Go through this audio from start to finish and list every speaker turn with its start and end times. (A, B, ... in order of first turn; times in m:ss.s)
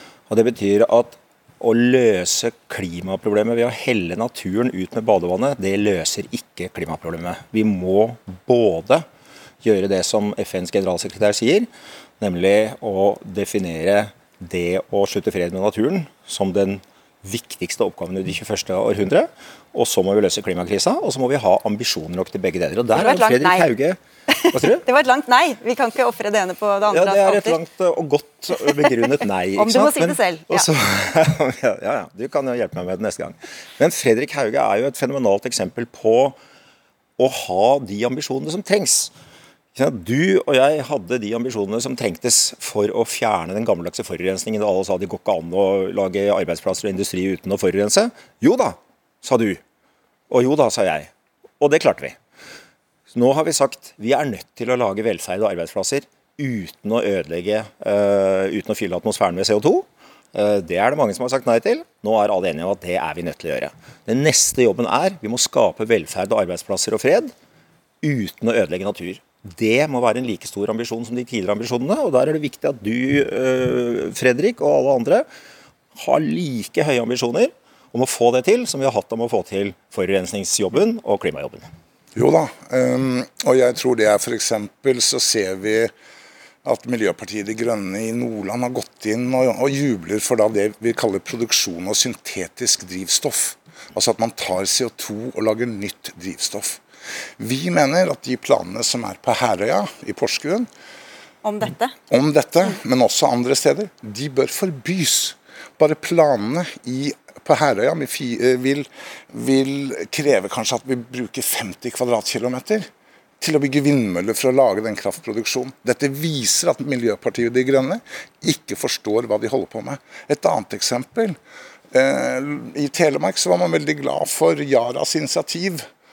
0:00.3-0:09.1 A
0:09.6-0:11.7 A
0:12.2-0:24.0 A
0:22.9-0:23.7 B
0:24.3-0:27.6 B
0:24.5-0:24.8 A
0:26.9-0:36.4 A
0:28.8-0:30.7 B
0:37.2-0:39.1 A
0:39.8-0:49.6 A
0:50.3-0:52.2 A
0:53.1-1:07.3 A
1:08.0-1:15.3 A
1:16.0-1:21.7 A
1:22.2-1:25.9 C
1:26.6-1:36.8 C
1:37.4-1:40.7 C
1:41.4-1:41.9 B
1:42.1-2:01.4 C
2:01.9-2:05.9 C